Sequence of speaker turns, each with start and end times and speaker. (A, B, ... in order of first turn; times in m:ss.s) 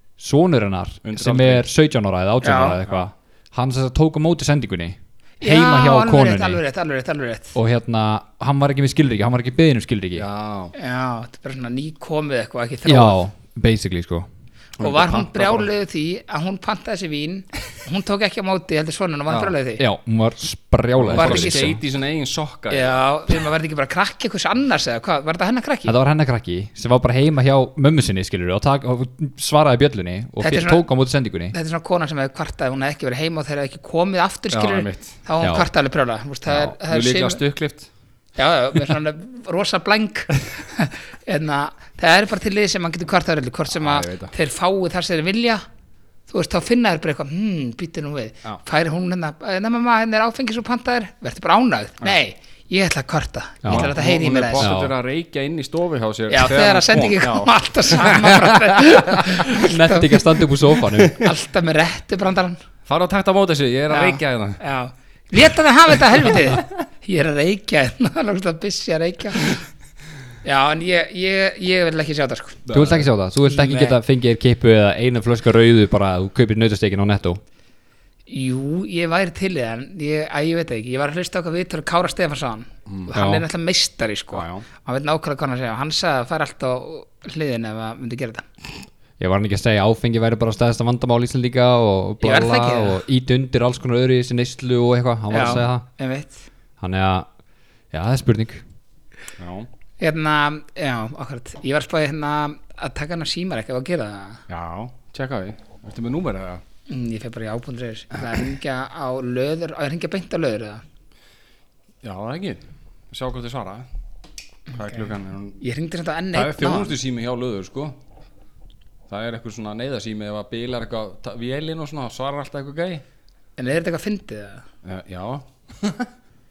0:00.2-0:06.6 A
0:01.0-0:01.7 B
0:02.4-0:02.8 C
0:05.4-0:07.6 C
0:07.6-0:10.3 A
0:10.2-0:10.7 B
0:10.8-0:13.2 C
0:12.8-0:14.3 A
0:14.8-0:15.7 B
0:14.8-0:19.8 C
0:19.3-0:19.5 B
0:19.8-0:21.8 A
0:21.0-0:23.0 B
0:21.2-0:21.7 C
0:22.7-0:26.0 C
0:25.9-0:31.6 A
0:30.4-0:30.8 C
0:31.5-0:37.4 C
0:34.5-0:35.2 B
0:35.4-0:35.7 A
0:36.5-0:37.9 B
0:38.4-0:45.6 C
0:43.7-0:44.3 B
0:46.3-0:54.7 C
0:53.6-0:53.9 A
0:53.7-0:58.9 B
0:54.6-0:54.9 A
0:56.3-1:00.4 C
0:59.5-1:01.2 A
1:01.2-1:02.6 C
1:02.9-1:04.6 B
1:03.9-1:09.6 C
1:10.4-1:12.7 C
1:12.7-1:13.1 B
1:12.7-1:17.4 A
1:13.4-1:14.0 C
1:18.3-1:28.5 C
1:23.1-1:23.4 A
1:24.3-1:24.7 B
1:29.2-1:35.8 A
1:32.2-1:33.0 C
1:35.3-1:36.4 C
1:36.8-1:37.3 A
1:37.9-1:38.6 A
1:39.4-1:39.7 B
1:40.0-1:44.4 C
1:44.5-1:46.6 B
1:46.9-1:50.8 C
1:52.0-1:53.9 B
1:54.7-1:55.6 B
1:55.6-1:57.0 C
1:56.3-1:58.0 B
1:59.1-2:03.0 B
2:03.6-2:04.7 C
2:04.8-2:06.1 B